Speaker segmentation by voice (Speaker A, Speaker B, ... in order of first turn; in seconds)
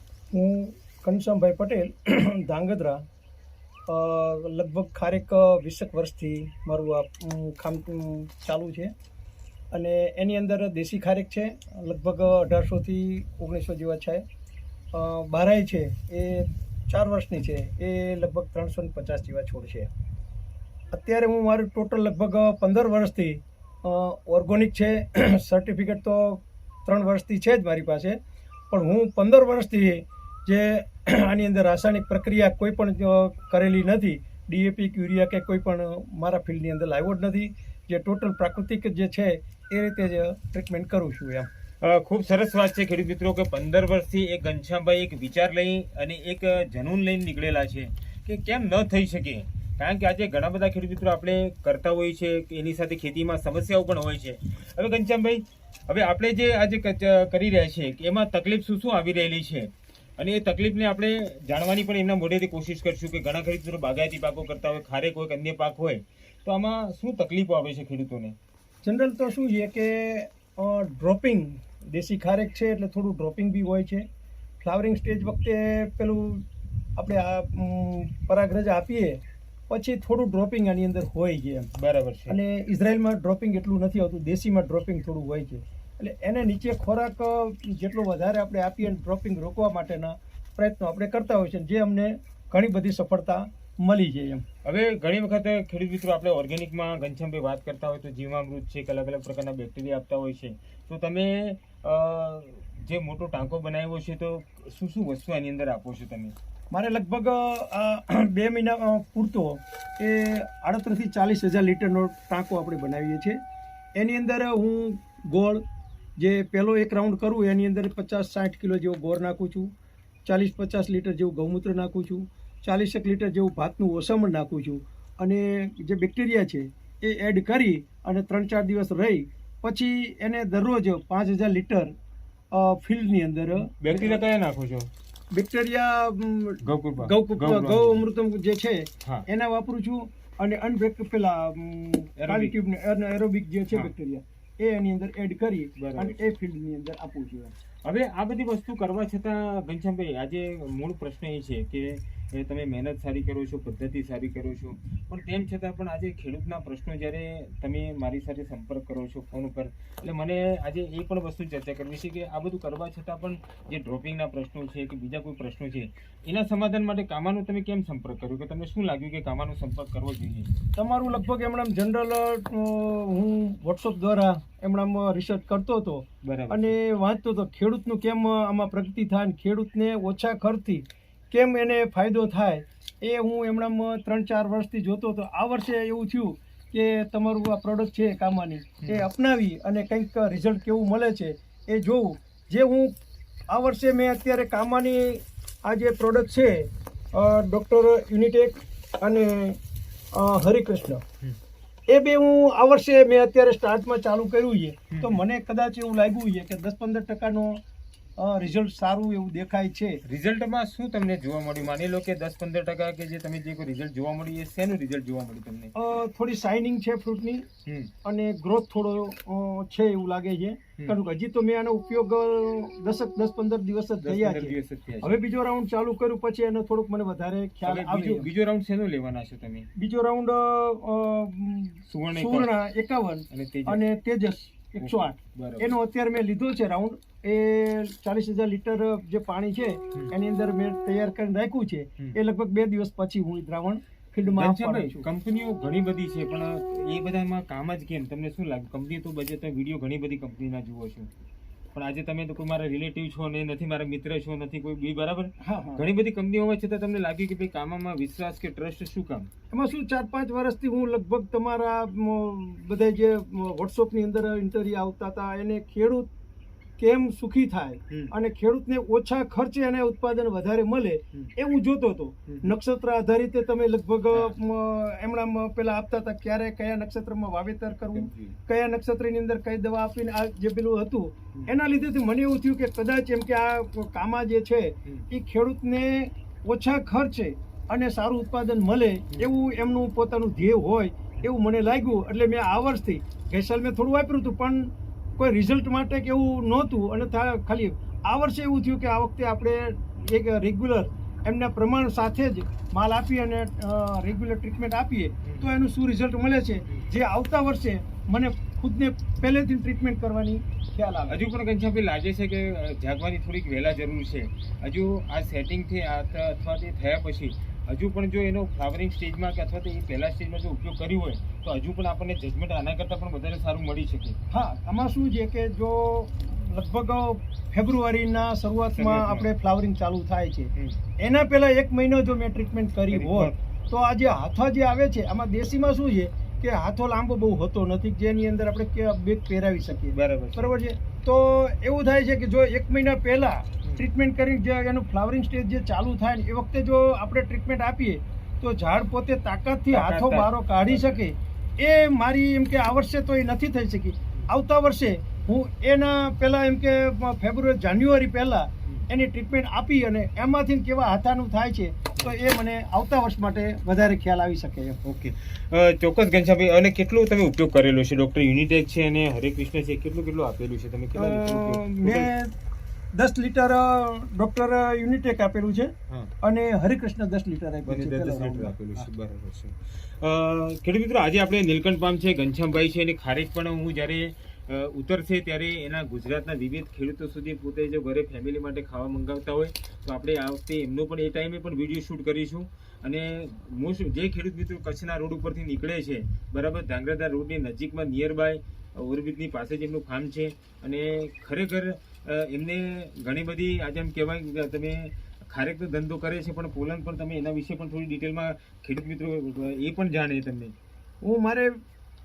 Speaker A: 0.3-3.0, 3.9-8.9, 9.7-14.2, 14.9-19.9, 20.9-28.2, 28.7-41.5, 68.8-74.0, 74.6-76.4, 77.0-81.7, 82.3-94.4, 106.7-113.4, 114.0-115.6, 116.2-119.7, 120.2-131.9, 132.5-134.2, 135.3-147.5, 170.7-192.9, 193.5-199.6, 200.1-201.0, 201.9-207.6, 208.2-210.0, 215.7-217.4, 218.0-228.3, 229.7-245.1, 255.4-255.8, 259.5-266.1, 266.8-311.2, 324.3-364.8, 370.9-372.3, 372.9-378.9, 411.0-411.5
Speaker B: 41.8-68.3, 81.7-82.4, 94.6-106.3, 133.5-134.9, 136.6-138.0, 142.2-142.5, 145.8-146.3, 147.8-170.5, 176.2-176.8, 204.9-205.2, 210.0-215.7, 217.6-217.9, 224.0-225.2, 227.6-229.7, 231.9-232.5, 233.3-233.8, 234.8-235.7, 244.3-251.1, 251.7-259.3, 272.3-272.5, 277.9-278.4, 305.2-305.5, 311.1-324.1, 328.7-329.3, 332.9-333.4, 339.9-340.5, 349.7-351.0, 364.8-372.1, 377.6-410.5